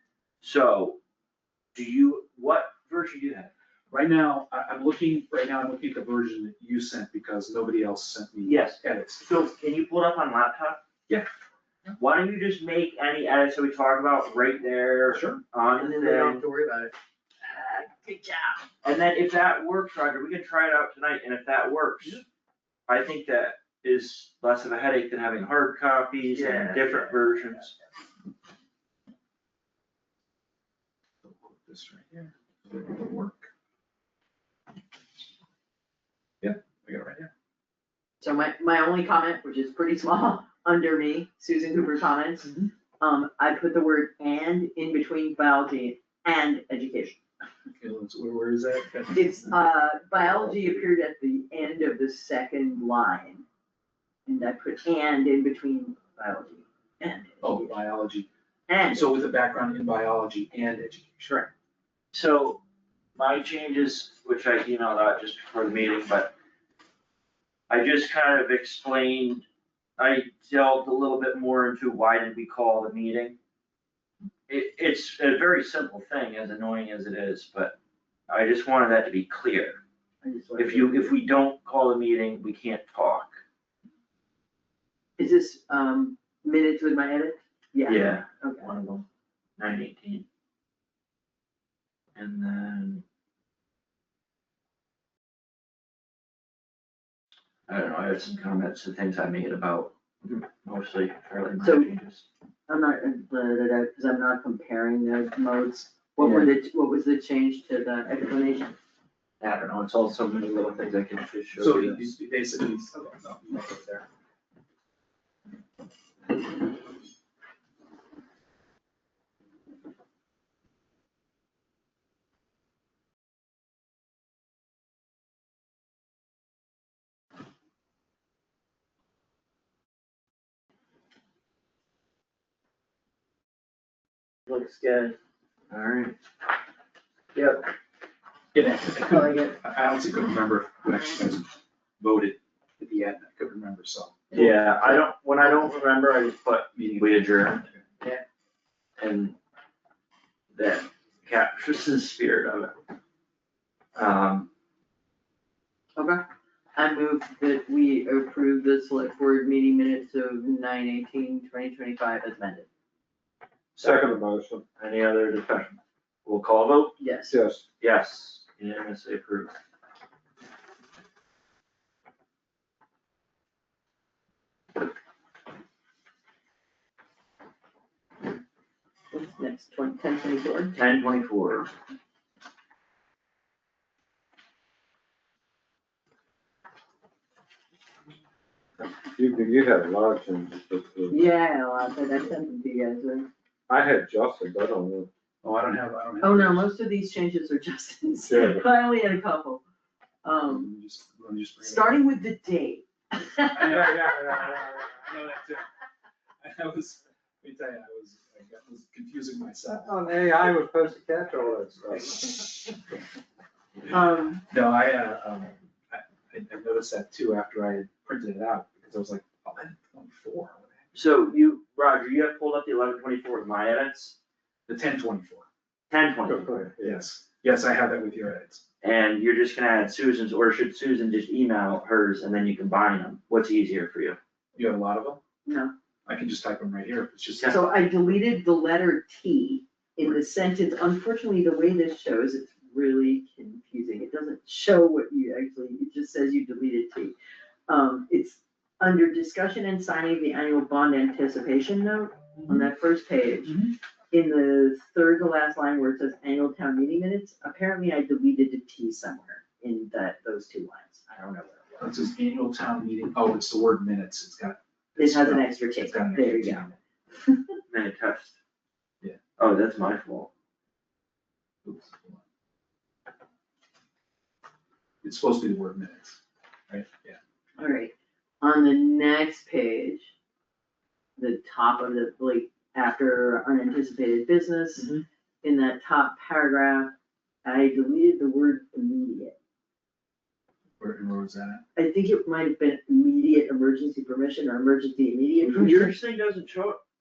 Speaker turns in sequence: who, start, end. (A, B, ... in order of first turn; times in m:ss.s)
0:00.4-0:01.0 A
0:01.7-0:03.5 A
0:03.9-0:09.3 B
0:08.4-0:10.8 A
0:12.0-0:16.4 A
0:15.1-0:15.4 B
0:15.8-0:18.6 C
0:18.8-0:22.2 A
0:22.9-0:27.7 A
0:26.3-0:27.6 C
0:31.2-0:33.5 B
0:36.4-0:37.3 B
0:38.2-0:47.2 C
0:47.7-0:49.5 B
0:49.1-0:53.4 C
0:54.3-0:57.8 C
0:57.4-0:58.3 B
0:58.7-0:59.1 C
0:58.9-1:01.5 B
1:02.1-1:02.6 A
1:03.2-1:06.3 A
1:07.7-1:09.4 A
1:10.0-1:13.4 A
1:14.5-1:17.8 A
1:18.3-1:19.8 A
1:20.2-1:21.2 C
1:20.6-1:23.4 A
1:25.2-1:28.7 C
1:27.9-1:29.1 A
1:29.6-1:30.2 A
1:32.2-1:33.0 A
1:37.7-1:42.2 A
1:41.6-1:41.9 C
1:42.7-1:48.8 C
1:46.2-1:46.5 A
1:49.4-1:52.1 A
1:51.6-1:54.1 B
2:14.5-2:15.2 A
2:15.7-2:16.2 A
2:18.5-2:24.2 B
2:19.1-2:19.6 C
2:24.3-2:25.7 C
2:24.3-2:27.6 A
2:26.8-2:27.8 B
2:29.0-2:29.4 A
2:30.5-2:32.8 A
2:34.0-2:34.5 A
2:36.0-2:36.2 C
2:36.8-2:42.7 C
2:43.8-2:44.2 A
2:43.8-2:44.6 D
2:44.8-2:47.0 A
2:47.0-2:47.4 C
2:47.3-2:47.6 D
2:47.8-2:49.5 A
2:59.1-3:00.8 C
3:00.8-3:01.7 A
3:09.1-3:11.2 D
3:11.1-3:13.3 C
3:13.7-3:15.1 D
3:15.4-3:16.7 B
3:16.2-3:19.6 C
3:18.3-3:18.6 D
3:20.2-3:20.7 C
3:20.5-3:22.1 B
3:21.6-3:23.8 C
3:23.5-3:25.7 B
3:23.7-3:24.6 D
3:26.4-3:30.6 B
3:29.8-3:32.3 D
3:32.1-3:32.5 B
3:33.9-3:34.4 C
3:34.5-3:40.8 B
3:40.9-3:44.2 A
3:44.7-3:45.5 B
3:45.9-3:46.6 A
3:46.3-3:47.0 D
3:46.8-3:48.6 B
3:48.8-3:54.2 A
3:54.6-3:55.2 B
3:55.4-3:55.7 C
3:56.1-3:58.0 B
3:57.4-4:07.2 C
4:07.7-4:13.6 C
4:13.4-4:13.7 B
4:14.1-4:21.9 C
4:21.8-4:26.7 B
4:25.0-4:27.4 C
4:27.7-4:28.4 A
4:29.4-4:30.3 A
4:31.6-4:32.2 B
4:35.0-4:37.2 B
4:37.6-4:40.1 C
4:41.2-4:44.9 C
4:44.8-4:45.0 B
4:45.4-4:46.9 C
4:47.4-4:49.4 C
4:50.8-4:51.6 B
4:51.8-4:56.0 C
4:55.5-4:56.8 A